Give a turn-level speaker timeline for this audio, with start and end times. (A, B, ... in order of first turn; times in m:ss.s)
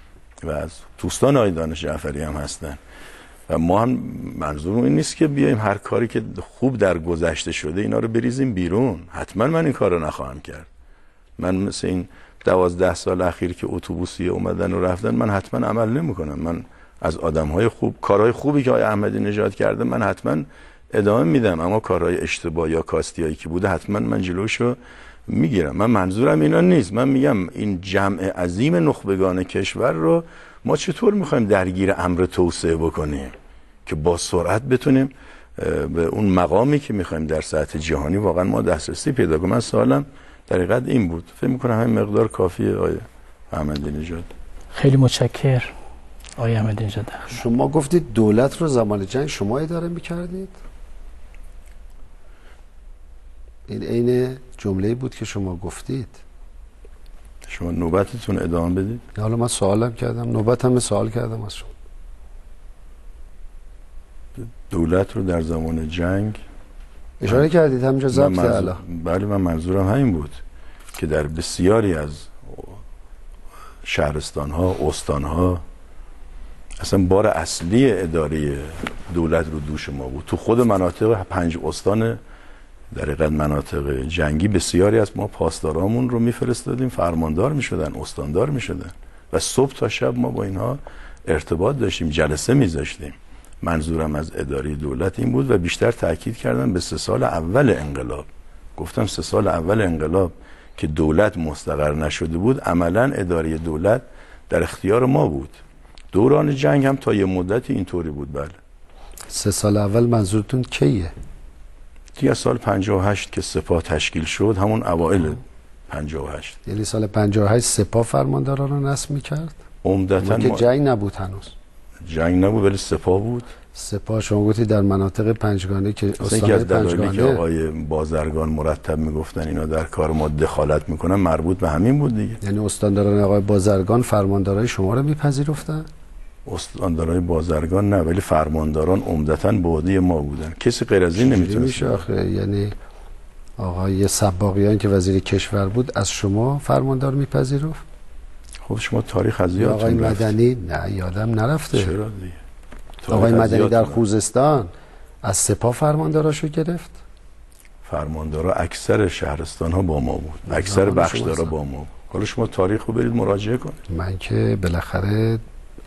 0:00.4-0:02.8 A
0:03.5-0:10.7 A
0:11.4-0:33.3 A
0:33.8-0:44.3 A
0:44.7-0:45.7 B
0:46.4-0:47.3 B
0:47.3-0:50.6 C
0:53.7-0:56.2 C
0:57.4-0:59.0 A
0:59.2-1:01.7 C
1:04.4-1:06.4 A
1:07.2-1:08.8 C
1:08.1-1:10.4 A
1:11.0-1:12.8 A
1:13.8-1:15.6 A
1:16.8-1:22.2 A
1:22.9-1:45.5 A
1:46.1-1:48.6 A
1:49.3-1:51.1 C
1:52.2-1:56.6 A
1:56.7-1:59.6 C
1:59.8-2:00.6 A
2:00.2-2:01.5 C
2:02.0-2:03.5 A
2:03.8-2:07.4 C
2:06.2-2:12.4 A
2:12.4-2:15.8 C
2:16.5-2:22.0 A
2:21.2-2:22.8 C
2:23.6-2:27.8 C
2:28.6-2:30.4 A
2:29.6-2:31.9 C
2:31.7-2:32.4 A
2:33.0-2:34.0 A
2:33.1-2:34.7 C
2:35.2-2:37.0 C
2:37.8-2:43.8 A
2:40.5-2:41.6 C
2:43.9-2:45.4 C